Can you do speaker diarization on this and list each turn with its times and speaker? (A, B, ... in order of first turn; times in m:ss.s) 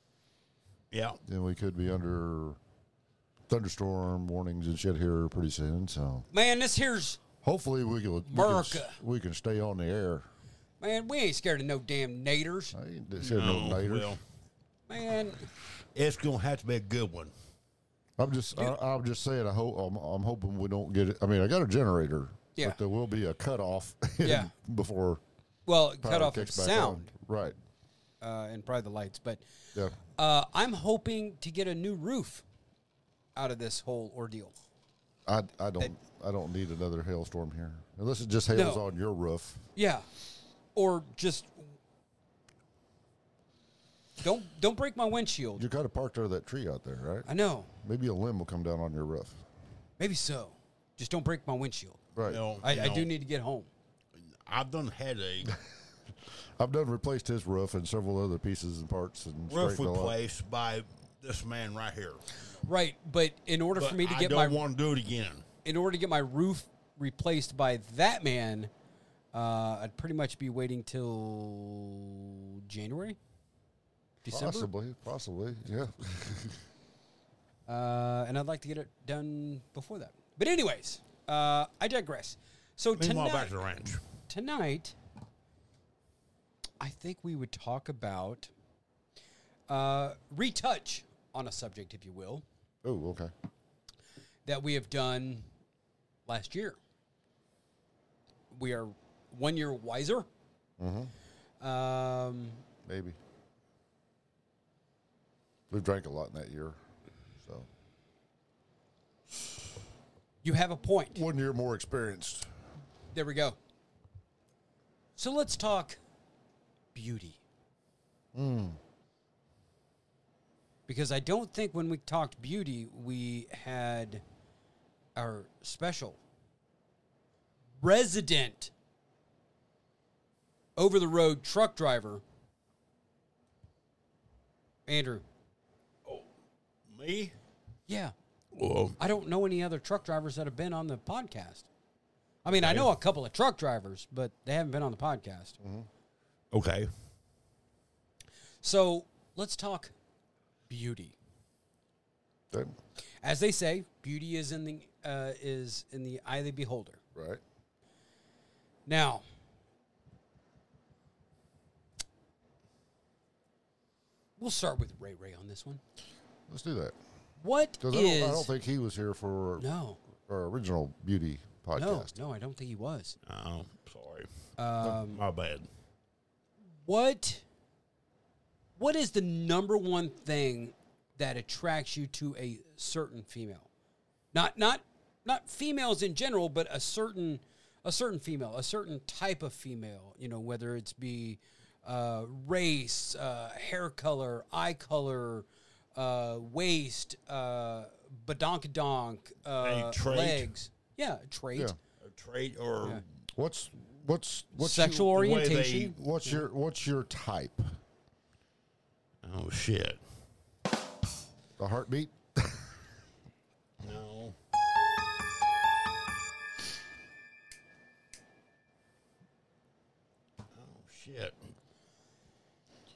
0:00.9-0:01.2 A
0:01.2-0:02.6 B
0:03.5-0:06.3 B
0:06.3-0:07.2 C
0:07.4-0:10.3 B
0:08.2-0:09.0 C
0:10.8-0:12.7 C
0:12.7-0:14.2 B
0:13.2-0:14.2 A
0:14.9-0:15.5 C
0:15.9-0:17.3 A
0:18.2-0:25.2 B
0:24.2-0:24.5 C
0:25.6-0:27.1 C
0:26.0-0:27.6 B
0:28.2-0:29.4 C
0:30.1-0:32.4 C
0:33.3-0:34.5 C
0:35.2-0:39.6 B
0:38.5-0:38.8 C
0:39.7-0:40.0 C
0:40.7-0:41.7 C
0:44.2-0:45.6 C
0:45.6-0:47.3 B
0:47.2-0:47.7 C
0:47.8-0:49.4 B
0:50.0-0:52.0 C
0:52.2-0:53.1 A
0:52.6-0:53.7 C
0:54.4-0:55.5 A
0:56.6-1:00.1 B
0:59.5-1:02.4 A
1:02.6-1:04.6 C
1:03.7-1:05.4 A
1:05.6-1:08.7 C
1:09.3-1:13.2 C
1:14.2-1:14.7 C
1:14.3-1:16.6 B
1:17.7-1:23.6 C
1:23.0-1:24.0 A
1:24.3-1:25.0 C
1:26.8-1:28.5 C
1:29.7-1:32.4 C
1:32.8-1:33.3 B
1:34.4-1:35.5 C
1:36.2-1:36.8 C
1:38.5-1:40.3 C
1:40.8-1:41.1 B
1:41.6-1:42.6 C
1:42.8-1:43.2 B
1:45.7-1:46.8 B
1:47.4-1:47.7 B
1:50.4-1:51.2 C
1:51.1-1:52.5 B
1:53.1-1:53.6 C
1:55.2-1:56.0 C
1:56.9-1:57.4 C
1:58.3-1:58.8 B
2:00.9-2:04.2 C
2:05.2-2:06.2 C
2:07.8-2:08.7 C
2:10.8-2:12.2 C
2:14.9-2:15.2 C
2:16.9-2:17.4 A
2:17.9-2:18.1 C
2:18.5-2:19.0 A
2:19.0-2:21.7 C
2:22.4-2:25.6 C
2:22.5-2:22.9 A
2:25.6-2:25.9 B
2:26.5-2:26.9 A
2:28.6-2:29.9 C
2:30.7-2:31.1 C
2:33.2-2:37.0 C
2:37.1-2:37.4 B
2:38.8-2:39.2 C
2:44.4-2:45.8 C
2:46.5-2:47.0 B
2:47.4-2:48.5 C
2:47.8-2:49.6 B
2:49.6-2:50.0 C
2:50.3-2:52.1 B
2:51.7-2:53.2 C
2:53.2-2:54.3 A
2:54.6-2:55.2 C
2:54.8-2:55.7 A
2:56.8-2:57.4 C
2:58.8-3:03.7 C
3:04.3-3:21.7 C
3:19.6-3:20.5 A
3:22.0-3:23.0 A
3:23.4-3:25.2 B
3:24.6-3:26.4 C
3:25.1-3:26.0 A
3:25.9-3:27.8 B
3:29.2-3:30.0 A
3:31.6-3:32.7 B
3:33.8-3:34.3 A
3:40.5-3:41.4 A